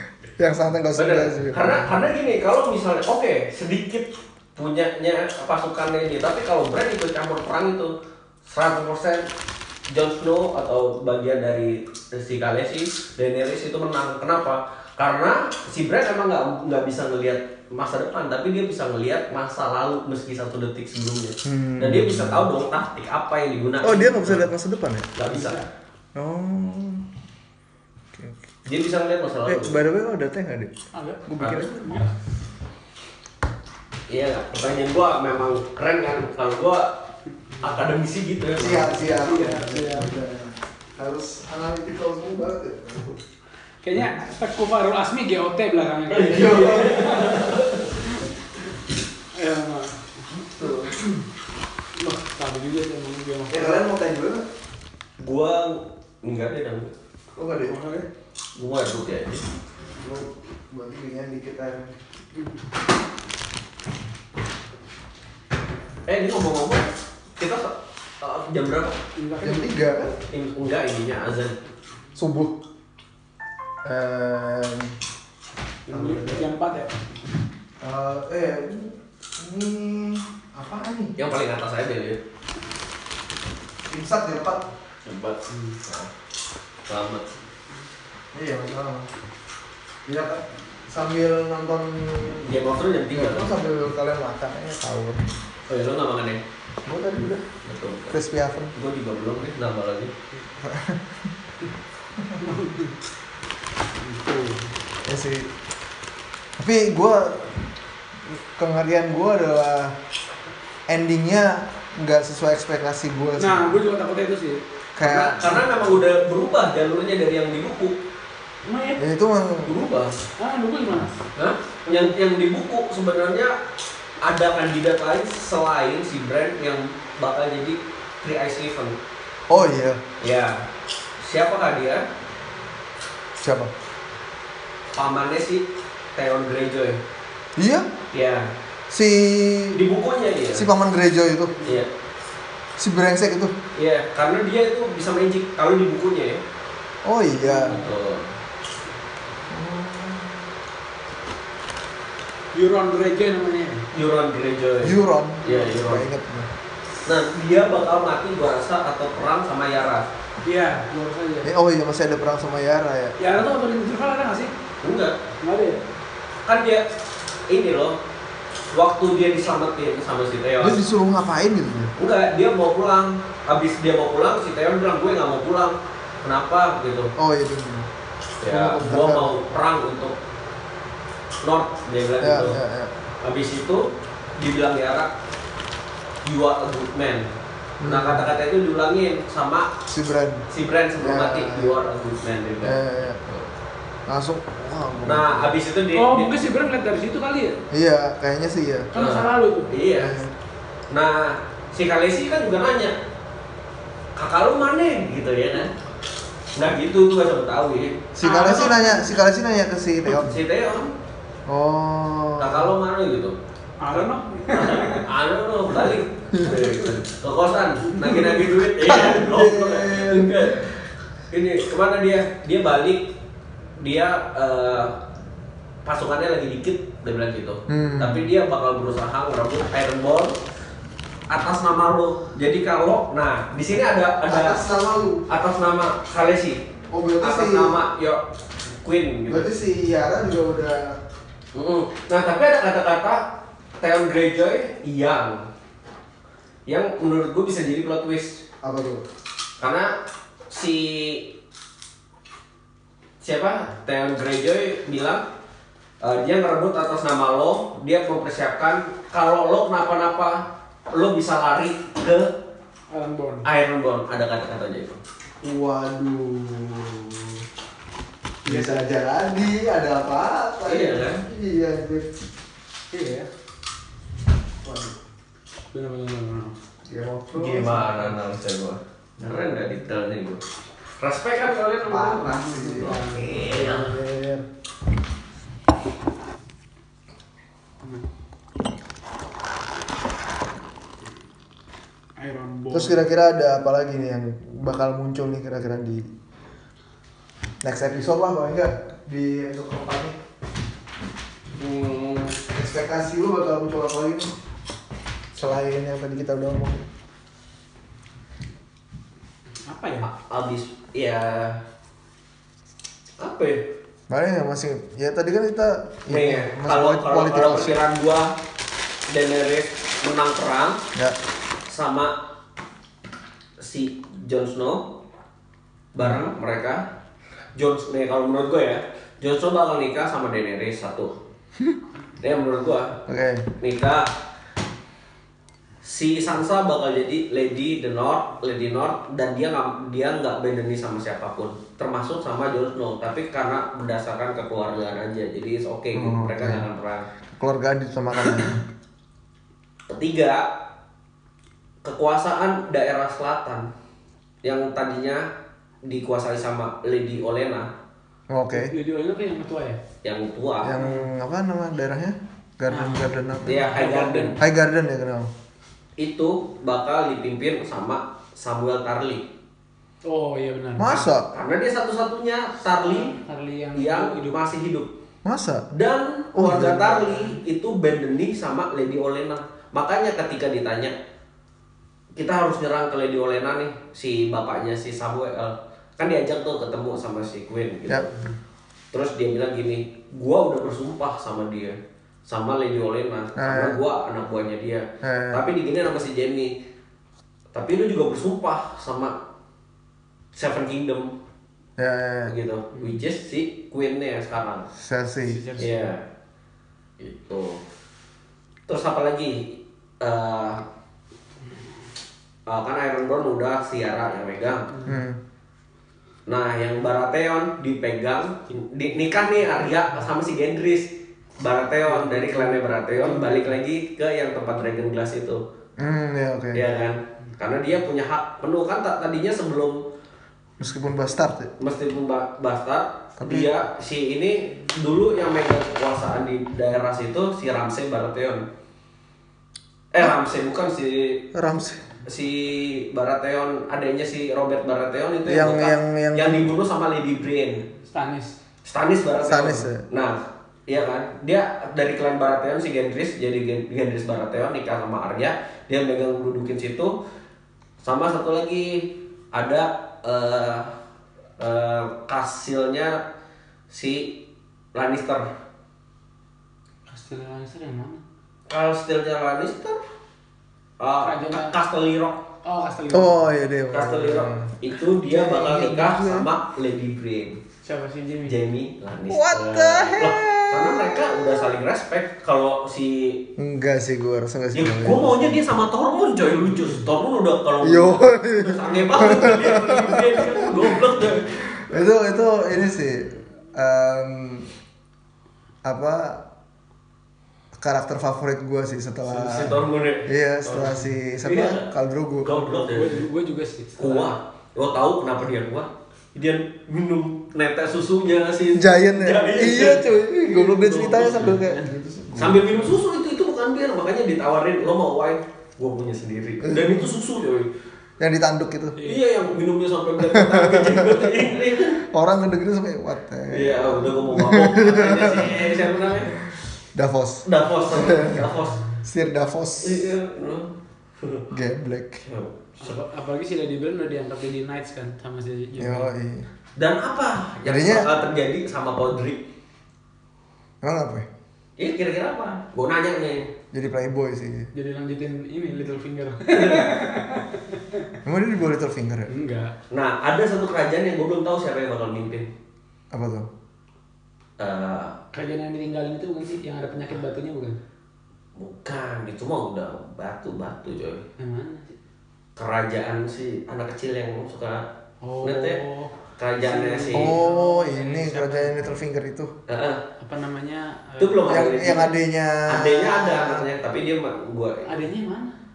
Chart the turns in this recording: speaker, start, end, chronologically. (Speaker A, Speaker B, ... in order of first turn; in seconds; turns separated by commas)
Speaker A: 0.4-1.9, Speaker B: 0.9-7.9, Speaker B: 8.4-9.3, Speaker B: 9.9-24.5, Speaker A: 21.4-22.5, Speaker A: 23.8-25.1, Speaker B: 25.1-25.6, Speaker C: 25.3-25.6, Speaker A: 26.1-27.1, Speaker A: 28.1-28.4, Speaker B: 28.6-29.8, Speaker A: 29.4-30.7, Speaker C: 30.9-32.1, Speaker A: 31.2-32.0, Speaker B: 31.4-31.7, Speaker B: 34.1-37.0, Speaker B: 37.6-39.0, Speaker A: 38.5-43.2, Speaker C: 39.0-40.1, Speaker C: 43.8-48.2, Speaker B: 46.1-48.0, Speaker A: 46.4-47.1, Speaker C: 49.3-50.2, Speaker A: 50.3-51.2, Speaker C: 52.0-53.8, Speaker A: 53.5-54.5, Speaker B: 55.2-56.9, Speaker A: 57.4-58.0, Speaker C: 57.6-58.0, Speaker B: 58.5-59.5, Speaker A: 60.0-62.0, Speaker B: 66.1-69.0, Speaker C: 69.2-69.8, Speaker A: 69.4-70.2, Speaker B: 70.3-71.5, Speaker A: 72.1-72.6, Speaker A: 73.8-74.9, Speaker C: 75.9-77.0, Speaker A: 75.9-76.5, Speaker A: 77.8-81.2, Speaker B: 81.2-82.2, Speaker A: 83.9-84.7, Speaker B: 85.0-86.1, Speaker C: 85.5-85.8, Speaker B: 86.9-87.3, Speaker A: 88.3-89.1, Speaker A: 90.1-92.6, Speaker B: 92.4-93.5, Speaker A: 93.1-95.3, Speaker B: 95.7-96.4, Speaker A: 96.8-97.5, Speaker B: 97.6-98.2, Speaker A: 98.1-98.7, Speaker B: 98.7-100.1, Speaker A: 100.6-101.3, Speaker C: 102.4-103.0, Speaker C: 104.0-104.7, Speaker A: 105.0-105.5, Speaker A: 106.6-107.7, Speaker A: 108.2-110.0, Speaker A: 110.9-113.8, Speaker C: 113.4-114.6, Speaker A: 115.0-115.9, Speaker B: 115.0-118.0, Speaker C: 118.6-119.0, Speaker A: 119.0-119.8, Speaker B: 119.6-120.2, Speaker C: 120.4-121.2, Speaker B: 121.3-123.6, Speaker B: 124.2-129.0, Speaker A: 129.5-130.0, Speaker B: 130.2-130.6, Speaker B: 131.2-132.1, Speaker A: 133.4-133.7, Speaker B: 134.9-135.6, Speaker B: 136.2-137.0, Speaker A: 137.6-137.9, Speaker B: 138.1-138.5, Speaker A: 138.9-139.8, Speaker B: 139.7-140.7, Speaker A: 140.5-141.6, Speaker A: 142.8-143.5, Speaker B: 143.8-146.4, Speaker A: 147.0-147.8, Speaker C: 147.4-147.9, Speaker B: 147.7-148.3, Speaker A: 149.5-150.5, Speaker C: 152.5-153.9, Speaker B: 153.9-156.1, Speaker A: 154.8-156.5, Speaker B: 157.1-160.1, Speaker C: 160.4-161.5, Speaker A: 161.4-163.2, Speaker C: 163.2-164.5, Speaker B: 164.8-165.2, Speaker C: 165.4-165.8, Speaker B: 166.4-166.8, Speaker B: 167.5-168.0, Speaker B: 168.7-170.8, Speaker A: 170.6-171.9, Speaker B: 172.0-177.1, Speaker A: 177.2-177.9, Speaker B: 178.4-180.2, Speaker A: 178.5-179.4, Speaker B: 181.4-182.6, Speaker A: 182.2-183.0, Speaker B: 183.2-185.1, Speaker B: 186.2-187.3, Speaker A: 187.8-188.3, Speaker B: 187.8-189.7, Speaker A: 189.9-190.5, Speaker B: 190.5-193.5, Speaker A: 191.0-191.8, Speaker A: 192.6-193.2, Speaker A: 194.1-195.5, Speaker B: 195.0-196.4, Speaker C: 195.9-197.6, Speaker A: 197.7-198.9, Speaker C: 198.9-199.8, Speaker B: 198.9-200.2, Speaker A: 199.9-200.3, Speaker B: 200.9-202.9, Speaker B: 204.2-205.7, Speaker B: 206.5-208.0, Speaker A: 208.1-210.4, Speaker C: 208.2-209.1, Speaker B: 210.1-210.9, Speaker A: 211.5-212.7, Speaker B: 212.4-213.4, Speaker C: 213.8-215.1, Speaker B: 213.9-220.7, Speaker A: 216.3-216.6, Speaker A: 218.8-220.6, Speaker B: 221.3-223.1, Speaker B: 223.8-225.0, Speaker B: 225.8-230.4, Speaker A: 227.7-228.3, Speaker B: 231.3-234.6, Speaker A: 234.2-235.2, Speaker B: 235.3-236.6, Speaker A: 236.9-237.8, Speaker B: 237.2-238.2, Speaker B: 238.8-239.5, Speaker A: 239.3-241.0, Speaker B: 241.5-243.2, Speaker B: 243.8-245.4, Speaker B: 246.7-248.4, Speaker A: 248.6-249.0, Speaker B: 249.6-249.9, Speaker B: 250.5-251.3, Speaker B: 253.2-255.2, Speaker B: 256.0-262.3, Speaker C: 262.9-263.5, Speaker B: 263.4-265.0, Speaker A: 265.4-267.4, Speaker C: 268.4-268.9, Speaker A: 268.4-272.1, Speaker B: 270.6-271.2, Speaker C: 272.9-273.3, Speaker A: 274.6-275.0, Speaker C: 275.7-276.6, Speaker A: 276.9-278.0, Speaker B: 277.3-280.4, Speaker A: 279.2-279.5, Speaker B: 281.0-283.9, Speaker A: 281.9-284.4, Speaker C: 281.9-284.0, Speaker C: 292.2-293.0, Speaker A: 292.7-296.1, Speaker A: 297.6-300.2, Speaker B: 301.6-302.4, Speaker A: 302.5-304.3, Speaker A: 305.3-306.9, Speaker C: 309.7-310.1, Speaker B: 310.0-311.6, Speaker B: 313.2-313.6, Speaker A: 314.1-317.8, Speaker B: 316.1-318.3, Speaker B: 319.1-320.8, Speaker B: 321.6-322.1, Speaker B: 323.6-324.9, Speaker B: 325.9-326.8, Speaker A: 326.0-326.3, Speaker B: 327.6-331.1, Speaker B: 332.2-333.0, Speaker A: 333.1-333.5, Speaker B: 333.6-334.1, Speaker B: 335.8-347.1, Speaker A: 345.9-346.7, Speaker A: 347.3-348.6, Speaker B: 349.9-350.5, Speaker B: 351.8-353.7, Speaker B: 354.4-355.3, Speaker B: 355.8-357.7, Speaker A: 358.3-358.7, Speaker C: 358.5-359.8, Speaker B: 360.0-360.8, Speaker A: 360.6-363.8, Speaker C: 360.8-361.1, Speaker C: 362.7-364.4, Speaker B: 363.4-364.4, Speaker A: 364.4-365.3, Speaker B: 366.0-369.3, Speaker C: 370.0-371.1, Speaker A: 370.8-371.3, Speaker B: 371.3-373.1, Speaker C: 372.8-374.4, Speaker B: 373.8-374.9, Speaker A: 375.2-375.7, Speaker B: 375.7-380.9, Speaker A: 376.4-377.4, Speaker B: 382.1-388.2, Speaker B: 388.9-396.5, Speaker A: 393.4-393.8, Speaker A: 395.0-395.4, Speaker B: 397.5-399.1, Speaker B: 400.3-401.1, Speaker A: 401.8-402.3, Speaker B: 402.2-404.7, Speaker A: 404.7-405.5, Speaker C: 405.2-405.9, Speaker B: 405.6-406.0, Speaker B: 407.0-407.6, Speaker B: 408.7-410.6, Speaker B: 412.5-414.7, Speaker A: 414.8-415.2, Speaker B: 416.3-425.4, Speaker C: 421.9-423.5, Speaker A: 425.8-426.6, Speaker B: 426.5-429.8, Speaker A: 430.6-431.5, Speaker B: 431.6-438.4, Speaker A: 433.2-433.5, Speaker B: 439.9-441.2, Speaker A: 441.3-441.8, Speaker B: 442.0-447.6, Speaker A: 445.2-446.5, Speaker C: 447.8-448.4, Speaker B: 448.6-456.9, Speaker A: 449.2-449.8, Speaker B: 457.8-460.7, Speaker B: 461.4-463.0, Speaker B: 463.7-464.2, Speaker B: 464.7-465.3, Speaker C: 466.9-468.0, Speaker B: 468.5-469.8, Speaker B: 470.8-472.2, Speaker C: 471.0-471.6, Speaker C: 472.4-473.2, Speaker A: 472.9-474.5, Speaker B: 473.7-477.4, Speaker A: 475.0-476.3, Speaker C: 477.6-478.4, Speaker B: 478.3-483.2, Speaker A: 479.1-481.5, Speaker A: 483.4-485.4, Speaker B: 484.5-491.9, Speaker A: 487.6-490.9, Speaker A: 491.7-494.5, Speaker A: 495.6-496.2, Speaker A: 497.6-502.3, Speaker B: 499.1-501.7, Speaker B: 502.2-503.1, Speaker C: 502.3-504.1, Speaker B: 503.8-511.4, Speaker A: 508.5-512.7, Speaker C: 511.2-511.7, Speaker B: 512.1-517.5, Speaker A: 516.4-516.9, Speaker A: 518.0-518.8, Speaker C: 518.8-519.0, Speaker B: 518.8-521.8, Speaker A: 520.0-530.0, Speaker B: 523.3-526.2, Speaker B: 527.2-528.6, Speaker B: 529.6-531.3, Speaker A: 531.3-532.0, Speaker B: 532.0-532.8, Speaker C: 532.6-535.9, Speaker A: 535.6-536.3, Speaker B: 536.5-539.2, Speaker A: 537.5-537.9, Speaker A: 540.6-541.1, Speaker B: 541.6-543.3, Speaker A: 543.5-544.5, Speaker C: 544.5-547.9, Speaker B: 546.3-546.8, Speaker A: 548.0-549.1, Speaker C: 549.1-549.5, Speaker B: 549.7-552.3, Speaker A: 552.9-553.3, Speaker B: 554.4-555.0, Speaker C: 555.1-557.5, Speaker B: 558.3-561.0, Speaker C: 561.2-561.8, Speaker B: 562.4-564.7, Speaker C: 565.0-568.5, Speaker B: 565.2-565.6, Speaker B: 566.2-567.1, Speaker A: 566.9-569.3, Speaker B: 569.5-569.8, Speaker C: 570.0-571.4, Speaker B: 571.0-571.9, Speaker A: 571.3-573.5, Speaker B: 572.5-574.7, Speaker C: 574.6-575.3